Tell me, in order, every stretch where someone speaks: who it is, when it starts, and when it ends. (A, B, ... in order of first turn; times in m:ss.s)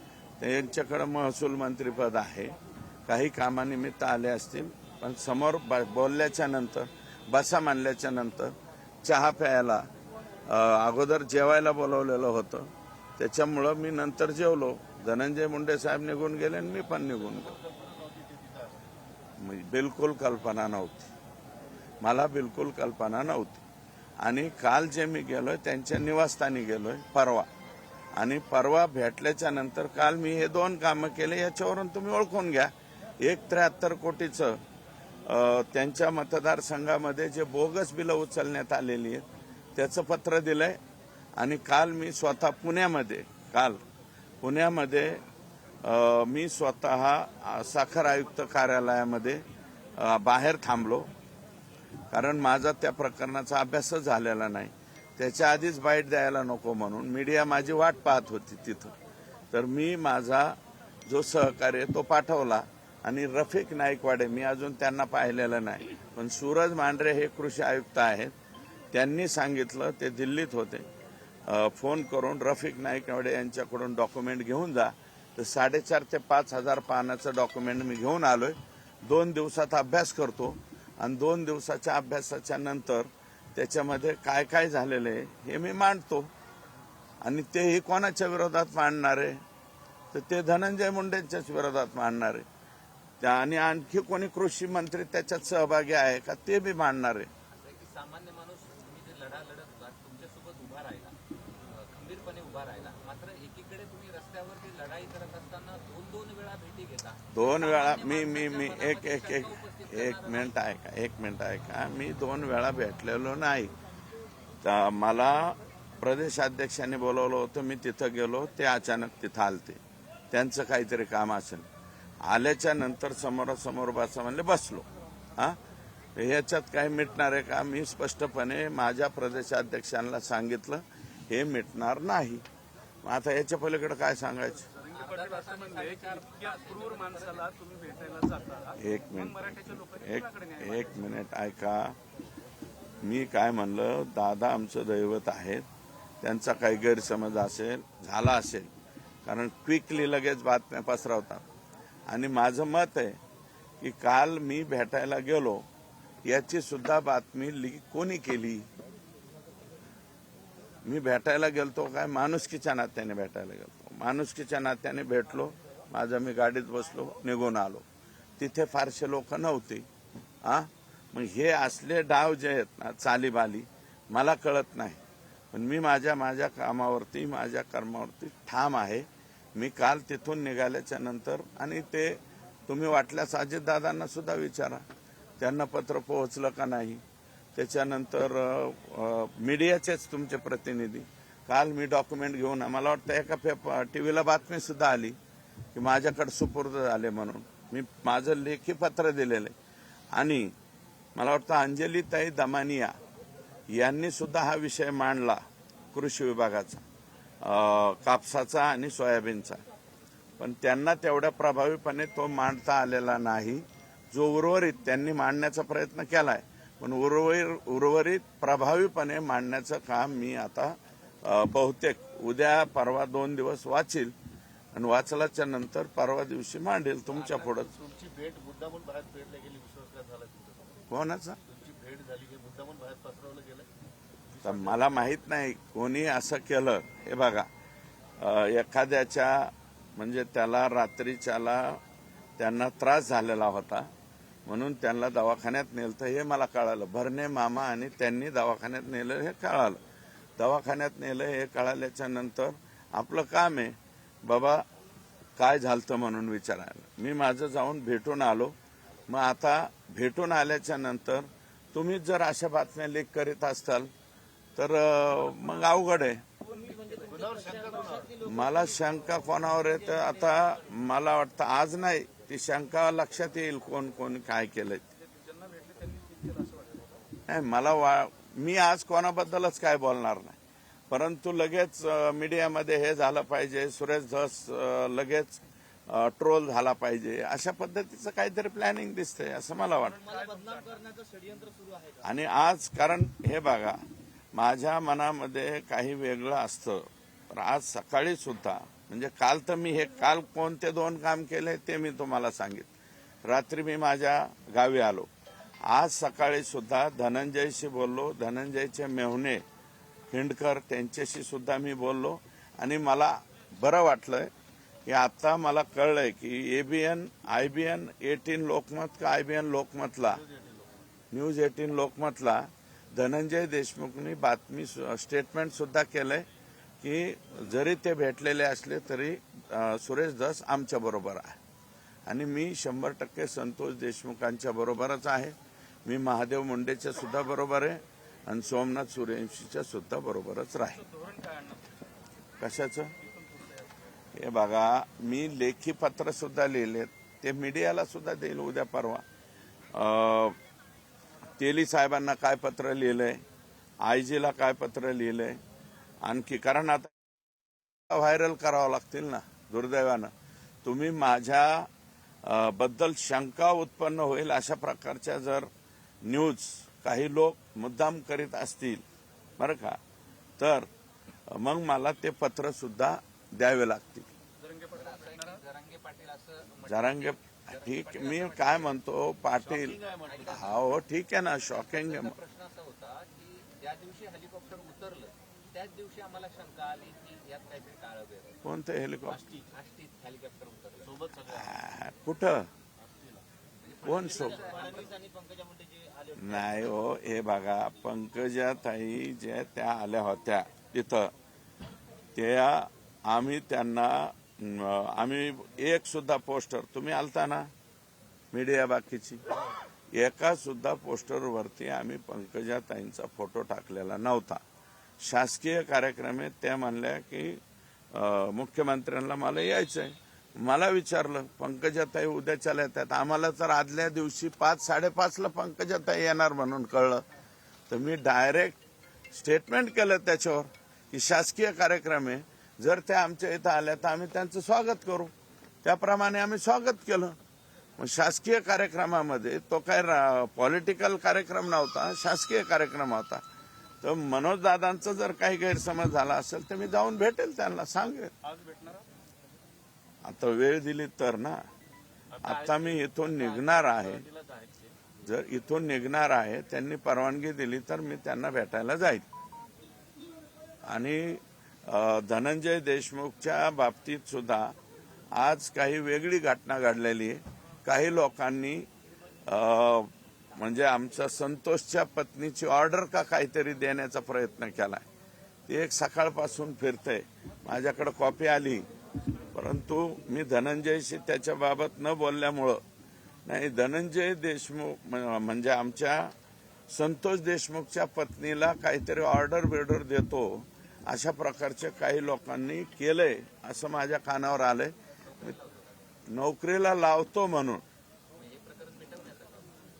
0:00.4-0:09.9 A
0:10.4-0:17.6 A
0:17.1-0:18.9 B
0:19.4-0:21.1 A
0:22.0-0:23.6 A
0:24.2-0:27.5 A
0:28.2-0:34.6 A
0:35.2-0:40.8 A
0:41.4-0:43.8 A
0:44.4-0:45.2 A
0:45.8-0:49.4 A
0:50.0-0:51.1 A
0:52.1-0:58.9 A
0:59.5-1:08.3 A
1:08.9-1:10.8 A
1:11.4-1:26.3 A
1:27.2-1:29.4 A
1:30.1-1:32.4 A
1:33.2-1:37.3 A
1:37.5-1:41.1 C
1:41.7-1:50.6 C
1:47.3-1:53.7 A
1:54.6-1:59.8 A
2:00.3-2:01.7 A
2:02.2-2:05.6 A
2:06.2-2:12.4 A
2:13.0-2:14.7 A
2:14.7-2:20.9 D
2:14.9-2:17.5 C
2:18.8-2:22.0 A
2:23.0-2:25.6 A
2:26.2-2:28.7 A
2:29.2-2:31.4 A
2:32.1-2:33.2 A
2:33.8-2:35.6 A
2:36.2-2:38.7 A
2:40.8-2:47.8 A
2:48.4-2:49.9 A
2:50.4-3:04.8 A
3:05.4-3:07.0 A
3:07.5-3:15.2 A
3:15.7-3:19.5 A
3:20.1-3:20.5 A
3:21.1-3:22.9 A
3:23.7-3:25.4 A
3:25.9-3:26.8 A
3:27.4-3:29.6 A
3:30.4-3:44.1 A
3:44.7-3:47.7 A
3:47.1-3:50.8 B
3:50.9-3:51.4 A
3:51.4-3:53.7 B
3:54.3-3:54.9 B
3:54.4-3:57.5 A
3:58.2-4:01.8 A
4:02.4-4:03.9 A
4:04.4-4:09.8 A
4:10.4-4:14.6 A
4:15.4-4:18.5 A
4:19.1-4:23.9 A
4:24.6-4:26.2 A
4:26.4-4:28.0 D
4:27.0-4:28.2 B
4:28.1-4:34.9 A
4:35.0-4:37.1 D
4:37.3-4:40.4 A
4:40.9-4:50.1 A
4:50.0-4:51.9 B
4:50.0-4:50.9 D
4:52.0-4:53.8 A
4:54.3-5:02.7 A
5:03.2-5:05.1 A
5:05.6-5:09.4 A
5:10.1-5:14.3 A
5:14.8-5:20.2 A
5:20.1-5:20.8 B
5:21.1-5:26.2 A
5:26.8-5:31.4 A
5:32.0-5:40.8 A
5:40.9-5:41.8 D
5:42.4-5:42.9 A
5:43.0-5:43.7 D
5:44.1-5:49.0 A
5:49.7-5:50.4 A
5:51.4-5:53.2 A
5:53.8-5:55.4 A
5:56.0-5:56.9 A
5:57.9-6:00.1 A
6:00.6-6:01.7 A
6:02.2-6:05.5 A
6:06.0-6:08.8 A
6:09.4-6:09.8 A
6:10.4-6:10.7 A
6:11.3-6:14.1 A
6:14.4-6:15.4 D
6:14.7-6:18.8 C
6:16.6-6:22.1 A
6:19.4-6:20.5 B
6:20.1-6:20.7 C
6:21.5-6:28.4 C
6:28.4-6:29.2 A
6:29.1-6:31.2 C
6:29.1-6:29.5 B
6:30.8-6:31.5 B
6:31.3-6:32.5 A
6:32.8-6:33.2 B
6:33.6-6:35.0 C
6:33.8-6:34.4 A
6:34.1-6:36.7 B
6:36.2-6:41.1 A
6:42.1-6:47.5 A
6:48.3-6:49.2 A
6:49.9-6:54.4 A
6:55.0-6:57.4 A
6:57.9-7:07.0 A
7:07.7-7:08.6 A
7:09.1-7:15.1 A
7:15.6-7:17.2 A
7:17.8-7:23.2 A
7:23.8-7:28.1 A
7:28.2-7:28.8 D
7:30.0-7:31.4 A
7:32.1-7:34.7 B
7:32.2-7:34.0 A
7:35.0-7:39.0 A
7:40.6-7:44.5 A
7:45.1-7:48.7 A
7:49.2-7:54.8 A
7:55.5-7:58.6 A
7:59.3-8:02.6 A
8:03.2-8:06.1 A
8:06.7-8:15.3 A
8:15.0-8:15.9 C
8:16.1-8:17.6 A
8:18.2-8:19.6 C